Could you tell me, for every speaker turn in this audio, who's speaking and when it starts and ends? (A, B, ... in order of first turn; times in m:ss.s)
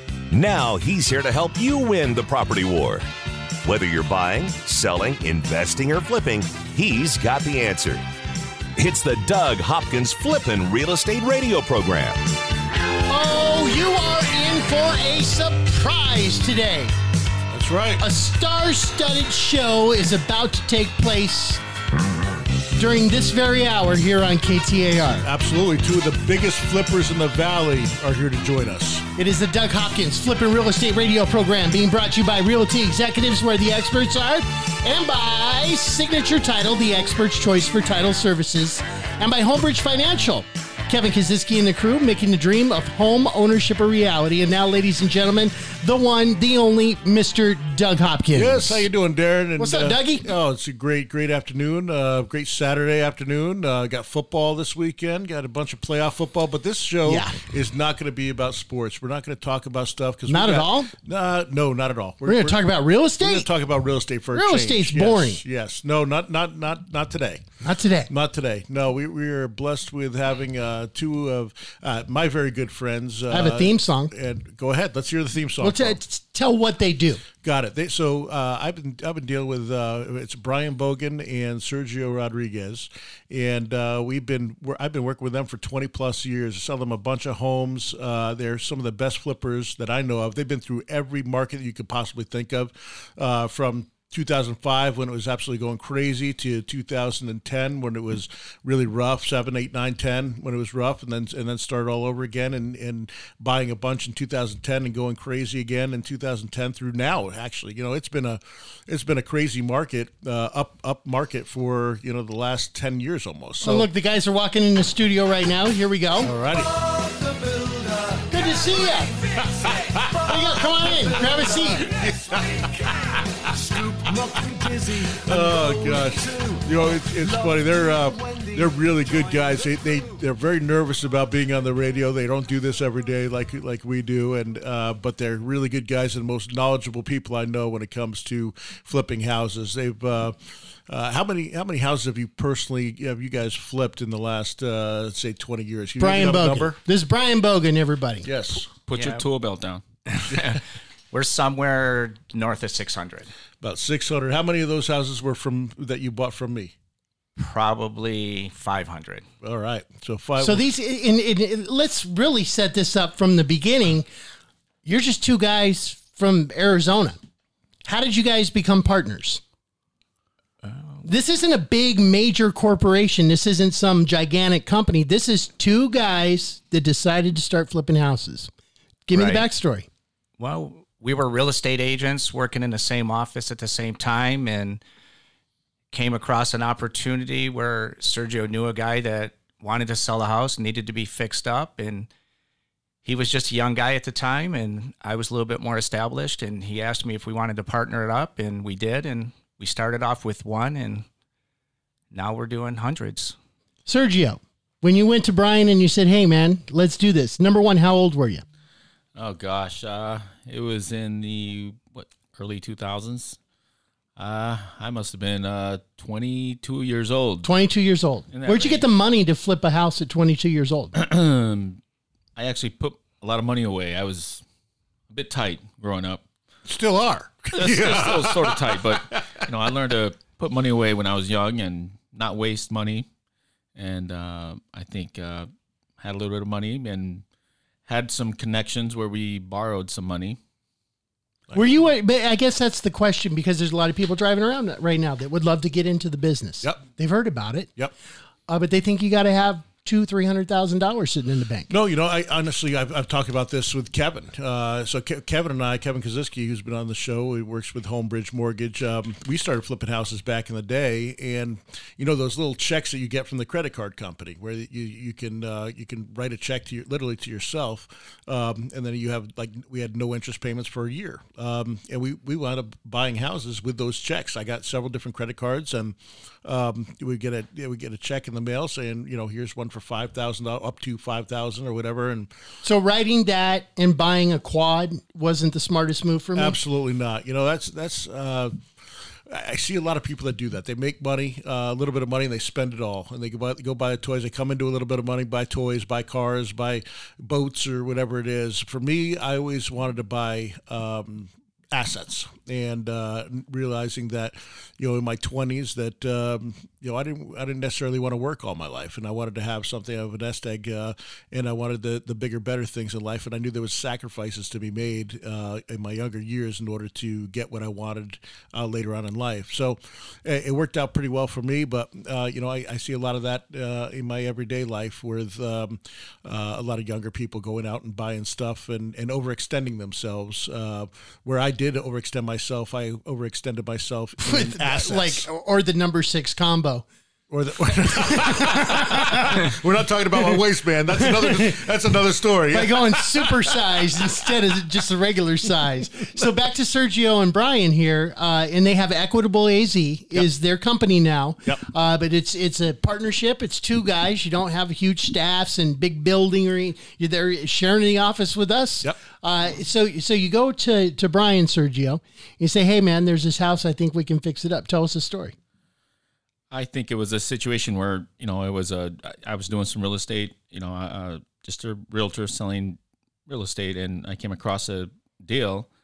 0:00.3-0:03.1 A
0:03.6-0:08.0 A
0:08.8-0:12.3 A
0:13.1-0:16.9 B
0:17.5-0:18.0 C
0:18.0-0:21.6 B
0:22.8-0:25.3 B
0:25.2-0:29.0 C
0:29.2-0:48.8 B
0:48.3-1:02.6 C
0:49.6-0:50.3 B
0:57.0-0:57.4 B
1:00.3-1:00.9 B
1:02.2-1:03.5 B
1:03.2-1:07.4 C
1:04.3-1:05.4 B
1:07.6-1:08.1 B
1:08.1-1:16.0 C
1:13.3-1:14.1 B
1:15.6-1:17.2 B
1:17.4-1:53.9 C
1:53.6-1:56.3 B
1:56.2-1:56.8 C
1:58.2-1:59.2 B
1:59.4-2:26.8 C
2:00.2-2:01.9 B
2:26.0-2:28.3 B
2:28.2-2:28.7 C
2:28.7-2:29.8 D
2:28.9-2:29.2 E
2:30.1-2:33.3 E
2:33.6-2:36.7 C
2:37.4-2:39.2 E
2:39.4-2:40.6 C
2:40.4-2:44.1 B
2:44.8-2:47.2 B
2:47.8-2:49.4 B
2:50.6-2:51.0 E
2:51.0-2:58.5 B
2:59.1-2:59.9 B
2:59.1-2:59.5 E
3:00.4-3:04.8 E
3:05.9-3:12.1 E
3:13.0-3:21.0 E
3:22.1-3:23.4 E
3:23.9-3:28.4 B
3:29.2-3:33.4 D
3:34.2-3:37.5 D
3:37.4-3:40.9 B
3:38.3-3:38.9 D
3:40.9-3:41.8 D
3:42.4-3:44.4 D
3:45.1-3:46.2 D
3:46.6-3:49.5 C
3:47.5-3:53.1 D
3:53.7-3:57.2 D
3:57.8-4:00.4 D
4:01.5-4:01.8 C
4:01.5-4:07.7 B
4:08.5-4:11.7 B
4:11.7-4:42.3 C
4:42.6-4:46.6 B
4:46.4-5:35.2 C
5:34.2-5:36.8 B
5:37.3-5:44.3 C
5:38.1-5:39.2 B
5:41.0-5:41.6 B
5:42.5-6:05.3 B
6:06.5-6:15.7 D